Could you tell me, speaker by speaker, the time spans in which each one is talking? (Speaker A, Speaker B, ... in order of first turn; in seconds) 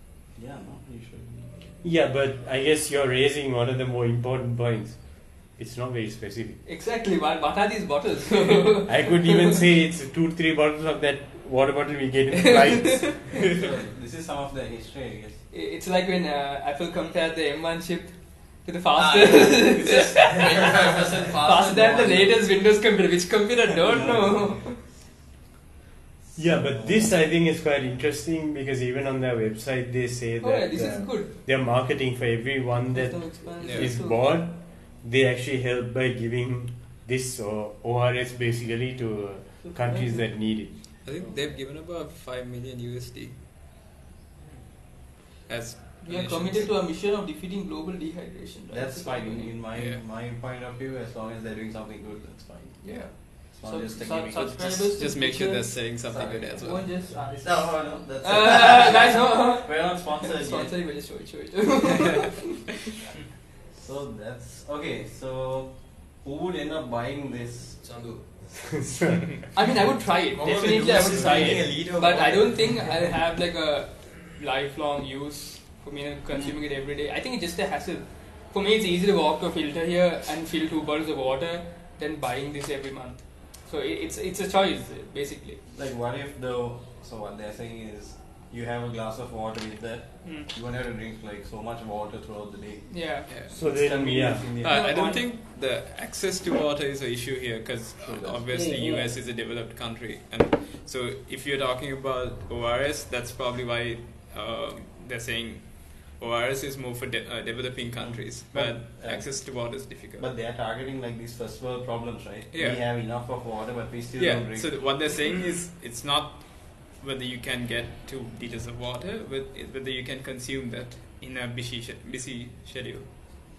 Speaker A: 0.3-1.8, 13.5-15.4, 19.0-22.4, 23.8-24.8, 26.4-27.1, 48.7-54.9, 56.1-60.9, 63.7-67.8, 85.7-94.9, 98.0-98.6, 108.1-114.8
Speaker B: 1.8-6.6, 8.9-13.4, 26.4-40.8, 68.8-69.2, 93.5-94.5
Speaker C: 6.7-9.6, 12.4-13.3, 15.5-24.8, 30.4-31.3, 32.9-34.2, 39.6-40.3, 46.0-49.5, 52.8-56.0, 56.6-62.6, 69.5-85.6, 92.9-93.3, 94.6-95.3
Speaker D: 33.6-33.9, 41.0-43.4, 45.5-46.8, 49.7-50.0, 54.4-56.9, 94.6-110.3, 112.5-112.8, 114.2-123.1
Speaker E: 67.8-68.9, 70.3-73.0